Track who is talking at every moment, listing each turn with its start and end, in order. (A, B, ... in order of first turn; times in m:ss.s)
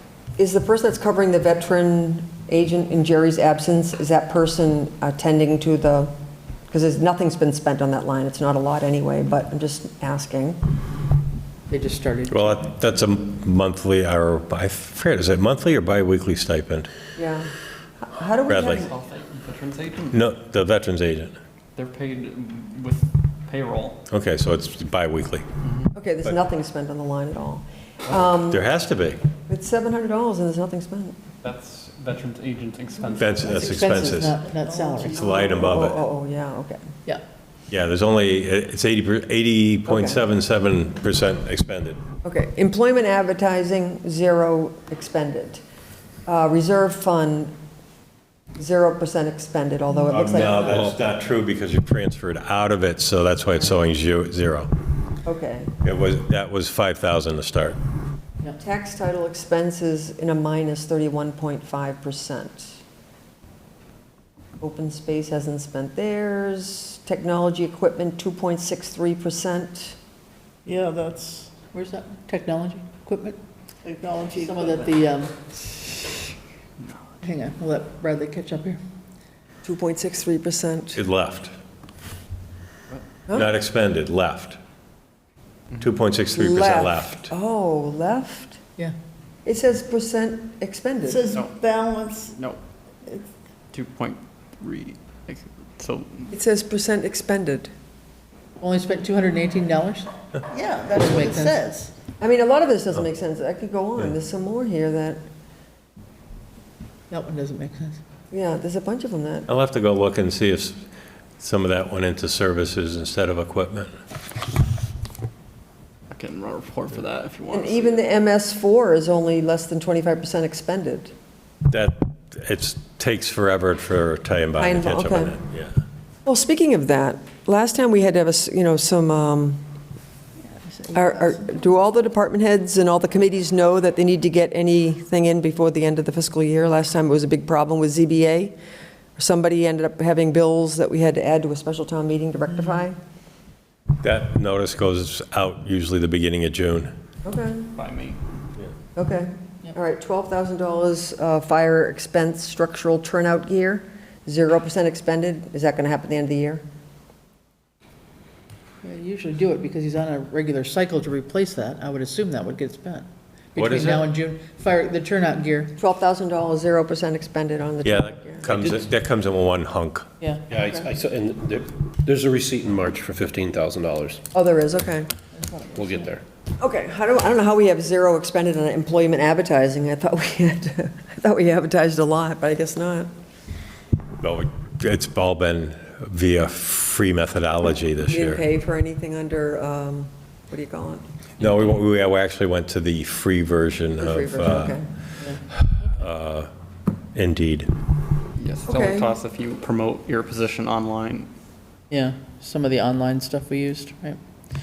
0:00.4-0:06.1 A
0:06.7-0:10.6 A
0:11.7-0:12.6 B
0:12.3-0:16.9 C
0:17.2-0:17.5 A
0:18.0-0:18.9 A
0:18.5-0:18.8 C
0:18.8-0:20.2 D
0:20.1-0:21.4 C
0:21.8-0:24.0 D
0:24.1-0:25.4 C
0:25.9-0:28.6 A
0:28.5-0:29.2 C
0:29.5-0:31.2 A
0:31.4-0:33.6 D
0:33.1-0:34.4 C
0:33.4-0:35.2 B
0:35.1-0:36.0 C
0:35.2-0:36.8 A
0:37.7-0:42.0 C
0:39.8-0:40.2 A
0:42.2-0:45.6 A
0:46.3-0:47.5 A
0:48.6-0:50.9 A
0:50.1-0:54.7 C
0:55.2-0:55.7 A
0:55.8-0:57.8 C
0:58.6-1:02.8 A
1:04.6-1:10.0 A
1:10.6-1:11.5 E
1:11.6-1:13.4 B
1:13.8-1:14.6 E
1:14.4-1:15.4 B
1:17.2-1:18.8 B
1:19.6-1:21.0 A
1:20.9-1:21.5 C
1:23.3-1:24.6 C
1:25.8-1:27.3 C
1:26.3-1:28.6 A
1:29.4-1:31.3 A
1:31.1-1:32.3 E
1:31.3-1:31.6 D
1:32.3-1:32.6 D
1:33.7-1:36.3 D
1:36.3-1:37.7 A
1:38.6-1:40.1 B
1:40.5-1:41.9 E
1:40.9-1:41.5 B
1:40.9-1:41.6 A
1:42.2-1:45.2 A
1:47.1-1:48.0 B
1:48.3-1:49.5 A
1:49.5-1:50.8 C
1:51.4-1:53.9 C
1:56.1-1:57.9 D
1:57.5-2:01.1 A
2:01.7-2:05.7 C
2:04.6-2:05.3 A
2:06.2-2:09.6 A
2:10.7-2:11.4 B
2:10.9-2:18.6 A
2:19.2-2:23.0 A
2:24.0-2:26.9 C
2:27.2-2:27.7 A
2:27.8-2:28.2 D
2:29.0-2:36.6 A
2:38.8-2:45.7 B
2:43.6-2:44.1 C
2:45.8-2:48.4 A
2:47.8-2:50.1 C
2:48.5-2:48.8 F
2:50.2-2:50.6 B
2:50.5-2:54.2 F
2:54.3-2:55.1 A
2:55.4-2:56.0 B
2:55.7-2:56.2 F
2:56.6-3:03.1 A
3:04.2-3:08.4 C
3:08.0-3:11.0 A
3:11.4-3:14.8 C
3:14.0-3:14.9 A
3:15.9-3:16.5 C
3:17.1-3:17.7 C
3:18.4-3:21.3 D
3:18.7-3:19.1 A
3:21.9-3:24.2 B